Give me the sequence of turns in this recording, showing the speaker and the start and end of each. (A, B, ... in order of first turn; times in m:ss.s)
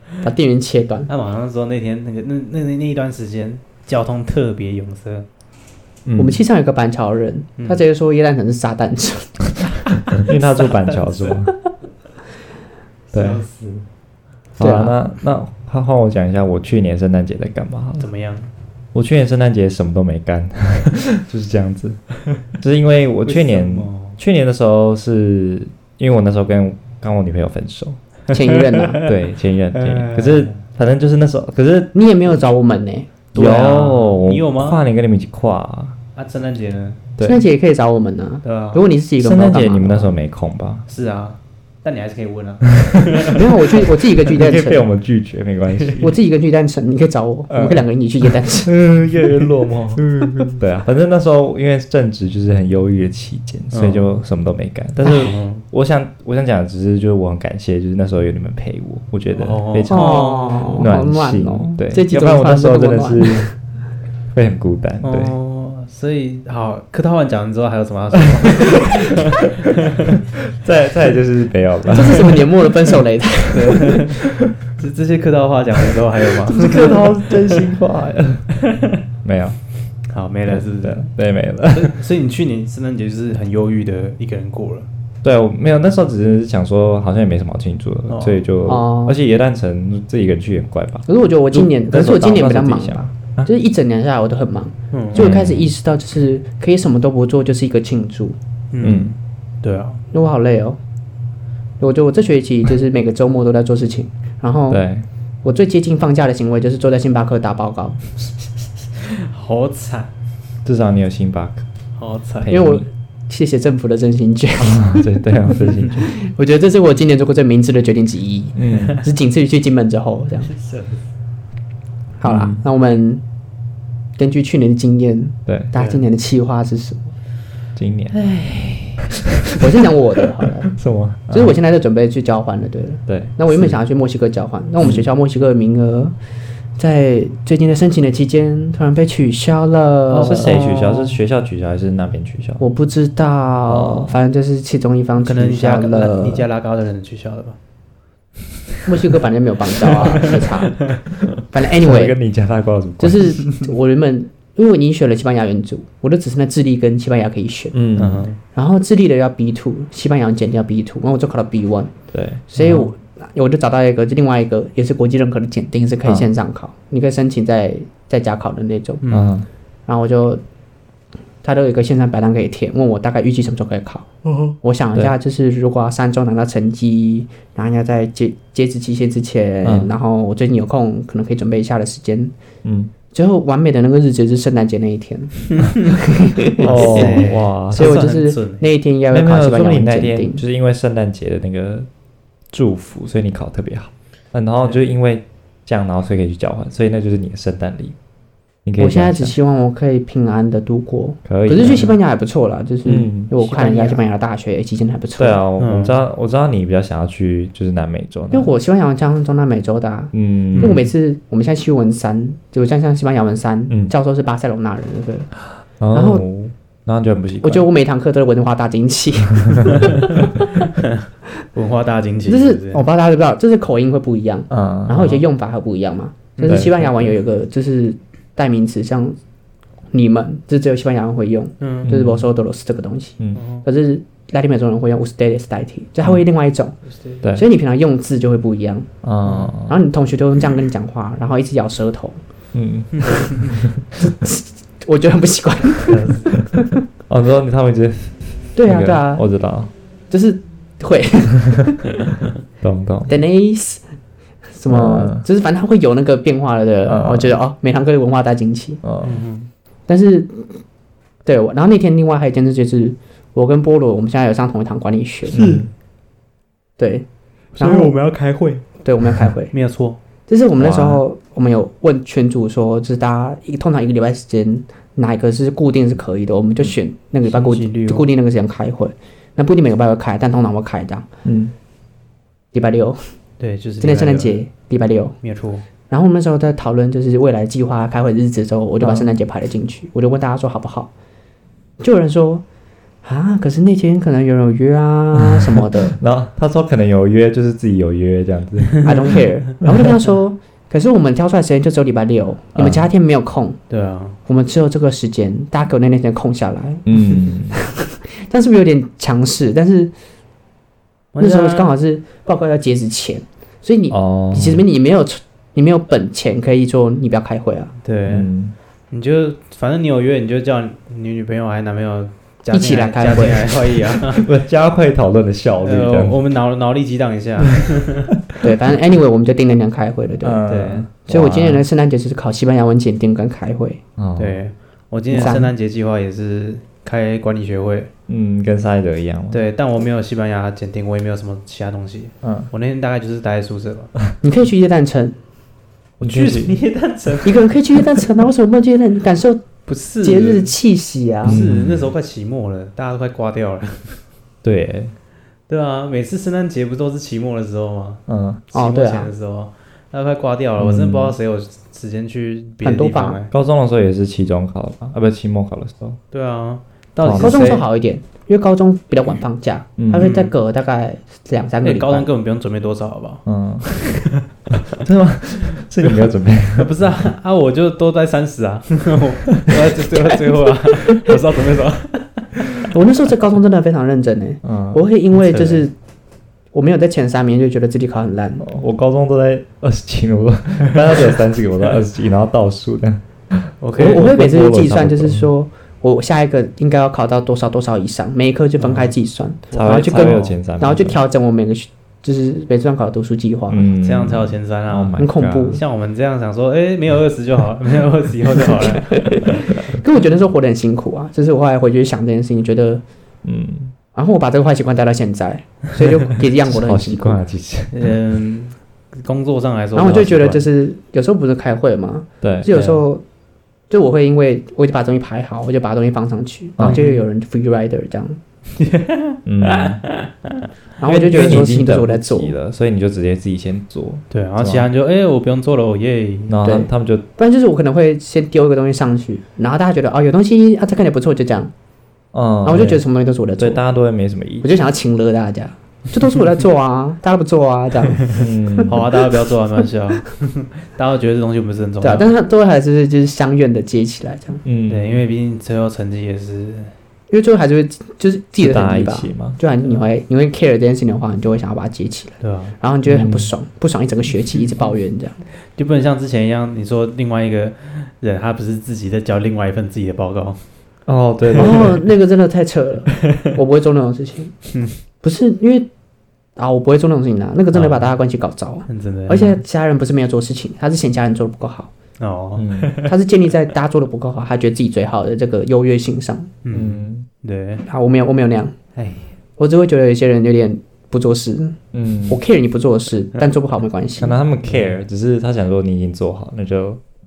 0:00.2-0:01.1 A
0:01.1-0:05.2 B
0:06.0-0:06.4 C
0:06.2-0:09.4 A
0:07.6-0:07.8 B
0:10.2-0:11.5 C
0:10.6-0:11.4 B
0:13.1-0:13.8 B
0:13.1-0:13.4 C
0:14.6-0:18.1 C
0:14.6-0:15.0 A
0:18.0-0:18.5 B
0:18.9-0:28.0 C
0:23.2-0:24.2 B
0:28.3-0:29.0 A
0:28.6-0:29.1 B
0:29.0-0:31.9 C
0:29.7-0:30.6 B
0:31.9-0:33.1 A
0:33.3-0:34.8 B
0:33.3-0:36.0 C
0:36.2-0:37.0 B
0:37.2-0:37.4 C
0:37.2-0:40.1 A
0:38.4-0:38.8 B
0:39.2-0:40.8 C
0:40.9-0:43.4 B
0:43.3-0:44.8 A
0:44.2-0:46.1 C
0:45.7-0:46.0 B
0:46.0-0:48.7 A
0:47.5-1:03.5 C
0:50.1-0:50.6 B
0:53.7-0:54.1 B
0:55.1-0:55.6 B
0:59.3-1:00.8 B
0:59.9-1:03.5 A
1:04.3-1:05.4 C
1:05.0-1:10.2 B
1:08.3-1:09.1 C
1:10.3-1:12.4 C
1:11.9-1:14.0 A
1:13.5-1:17.6 B
1:16.5-1:18.6 C
1:18.6-1:19.0 B
1:19.2-1:19.6 C
1:20.1-1:21.1 B
1:20.4-1:21.9 C
1:21.7-1:24.9 B
1:25.2-1:33.5 C
1:28.1-1:28.4 B
1:28.6-1:29.2 A
1:31.1-1:38.4 A
1:34.9-1:35.2 B
1:35.1-1:35.7 C
1:38.7-1:40.0 B
1:38.8-1:39.1 C
1:40.1-1:40.8 A
1:41.8-1:44.8 A
1:44.7-1:45.0 C
1:45.4-1:48.0 A
1:49.1-1:50.1 B
1:50.6-1:51.6 C
1:52.0-1:52.5 B
1:52.4-1:52.8 C
1:52.5-2:00.5 A
1:54.6-1:56.1 C
1:58.5-1:59.0 C
2:00.5-2:01.0 B
2:02.2-2:03.2 A
2:02.2-2:02.6 C
2:04.2-2:07.1 A
2:05.4-2:05.7 C
2:05.7-2:06.0 B
2:07.8-2:08.2 C
2:08.1-2:09.1 B
2:09.5-2:10.8 A
2:10.7-2:11.6 C
2:11.3-2:16.1 A
2:13.1-2:13.8 C
2:16.8-2:20.9 A
2:20.1-2:20.9 B
2:20.2-2:22.6 C
2:22.6-2:26.5 A
2:23.7-2:24.2 C
2:25.2-2:27.6 B
2:28.8-2:30.9 A
2:29.9-2:31.0 B
2:31.5-2:32.2 A
2:31.8-2:33.4 C
2:33.0-2:37.8 A
2:37.7-2:38.3 C
2:38.0-2:38.4 B
2:38.4-2:41.9 A
2:42.1-2:42.4 C
2:42.5-2:49.0 A
2:42.6-2:42.9 B
2:49.0-2:49.3 B
2:49.1-2:49.5 C
2:49.9-2:50.4 A
2:51.4-2:54.1 A
2:54.6-3:02.3 A
2:59.6-2:59.9 C
3:02.6-3:02.9 C
3:03.1-3:10.4 A
3:06.5-3:08.6 B
3:06.6-3:07.9 C
3:09.1-3:11.9 C
3:12.5-3:17.9 C
3:18.6-3:19.4 C
3:18.8-3:25.4 A
3:21.2-3:21.9 C
3:21.6-3:21.9 B
3:22.8-3:23.9 C
3:23.4-3:24.0 B
3:25.2-3:28.5 C
3:25.6-3:25.9 B
3:28.3-3:35.3 A
3:30.1-3:30.9 C
3:30.5-3:30.8 B
3:33.7-3:33.9 C
3:35.8-3:37.7 C
3:35.9-3:36.2 A
3:37.4-3:40.3 A
3:40.8-3:41.0 B
3:41.5-3:42.8 B
3:42.3-3:49.2 A
3:44.5-3:45.2 C
3:46.4-3:46.8 B
3:46.4-3:47.1 C
3:49.9-3:58.9 A
3:51.6-3:51.9 B
3:51.8-3:52.3 C
3:53.4-3:53.6 B
3:59.0-3:59.8 C
3:59.2-3:59.5 B
3:59.6-4:02.2 A
4:02.5-4:03.8 C
4:03.0-4:03.3 B
4:04.0-4:06.7 A
4:05.9-4:06.4 B
4:07.1-4:09.7 C
4:08.5-4:09.2 A
4:10.1-4:11.8 A
4:12.6-4:13.1 C
4:13.1-4:13.8 A
4:14.5-4:18.8 A
4:14.7-4:15.2 C
4:16.8-4:17.4 C
4:18.8-4:19.2 C
4:19.0-4:19.5 B
4:19.9-4:20.6 A
4:21.2-4:25.4 A
4:25.3-4:25.6 B
4:25.3-4:25.7 C
4:26.8-4:27.0 A
4:27.6-4:28.6 B
4:27.6-4:28.0 A
4:28.8-4:29.5 A
4:29.5-4:30.0 B
4:30.3-4:41.1 A
4:30.6-4:31.0 C
4:37.2-4:38.0 B
4:41.2-4:41.5 C
4:42.5-4:43.0 A
4:43.4-4:44.4 B
4:43.8-4:45.2 A
4:45.2-4:45.6 B
4:45.9-4:50.9 A
4:51.8-4:52.4 A
4:53.0-4:56.0 A
4:55.2-4:59.9 C
4:58.8-5:03.6 A
5:02.6-5:02.9 C
5:03.7-5:04.2 B
5:04.2-5:07.0 A
5:06.8-5:07.6 C
5:07.5-5:09.9 A
5:11.1-5:11.7 B
5:11.2-5:17.7 A
5:13.9-5:14.6 C
5:17.8-5:18.3 B
5:18.1-5:18.5 C
5:18.9-5:24.3 B
5:22.5-5:23.9 A
5:24.2-5:26.2 C
5:25.6-5:28.1 B
5:28.4-5:30.4 A
5:30.2-5:31.6 C
5:30.5-5:30.9 B
5:31.1-5:33.8 A
5:34.0-5:34.4 C
5:34.2-5:37.9 B
5:35.1-5:35.5 A
5:38.1-5:39.4 C
5:39.3-5:43.9 B
5:42.2-5:42.5 C
5:44.2-5:45.2 A
5:46.0-5:47.5 B
5:46.0-5:46.6 C
5:47.2-5:49.5 A
5:49.6-5:50.6 B
5:50.0-5:51.4 A
5:51.2-5:51.9 C
5:51.2-5:54.0 B
5:54.4-5:54.9 C
5:55.5-6:03.3 B
5:58.1-5:58.4 C
5:58.5-5:59.1 A
6:00.6-6:01.1 C
6:02.6-6:03.2 A
6:03.3-6:06.0 C
6:06.1-6:07.6 B
6:07.0-6:07.6 C
6:07.2-6:12.1 A
6:09.8-6:10.1 C
6:10.0-6:10.3 B
6:11.6-6:14.2 B
6:13.2-6:13.6 C
6:14.8-6:16.7 C
6:15.6-6:22.4 B
6:22.7-6:25.7 A
6:24.4-6:24.8 C
6:25.1-6:25.6 B
6:26.5-6:28.5 A
6:28.4-6:35.3 C
6:33.6-6:34.1 B
6:33.8-6:43.6 A
6:38.6-6:38.9 B
6:39.5-6:40.4 B
6:39.5-6:41.0 C
6:43.5-6:45.6 C
6:43.8-6:49.5 B
6:45.0-6:45.6 A
6:48.9-6:49.2 A
6:49.7-6:52.8 A
6:53.2-6:53.7 C
6:53.9-6:57.2 A
6:56.4-6:57.9 C
6:57.7-7:00.4 B
6:59.7-7:03.0 A
7:02.2-7:02.5 C
7:02.5-7:02.8 B
7:03.7-7:08.2 A
7:06.6-7:07.0 B
7:08.6-7:10.5 B
7:09.2-7:09.8 C
7:10.8-7:12.3 A
7:10.8-7:14.7 C
7:14.1-7:16.4 B
7:16.3-7:17.0 C
7:16.4-7:21.5 A
7:22.1-7:22.8 C
7:22.4-7:23.6 A
7:23.4-7:24.5 C
7:24.4-7:28.1 A
7:28.2-7:28.8 C
7:28.7-7:32.1 B
7:31.8-7:34.4 A
7:34.4-7:35.0 C
7:34.7-7:36.7 B
7:37.1-7:45.2 A
7:38.4-7:39.4 C
7:42.2-7:42.6 B
7:42.8-7:43.3 C
7:45.5-7:50.4 B
7:50.9-7:51.8 C
7:51.3-7:51.6 B
7:51.4-7:54.4 A
7:54.5-7:54.8 B
7:55.0-7:55.7 A
7:56.4-8:01.7 A
7:58.7-7:59.4 B
8:02.0-8:02.9 B
8:02.4-8:02.7 C
8:02.8-8:06.3 A
8:06.4-8:07.6 B
8:06.5-8:07.1 C
8:07.6-8:08.6 A
8:08.8-8:09.1 B
8:09.4-8:11.6 A
8:11.7-8:12.2 C
8:12.1-8:14.2 A
8:14.0-8:16.8 C
8:14.4-8:14.8 B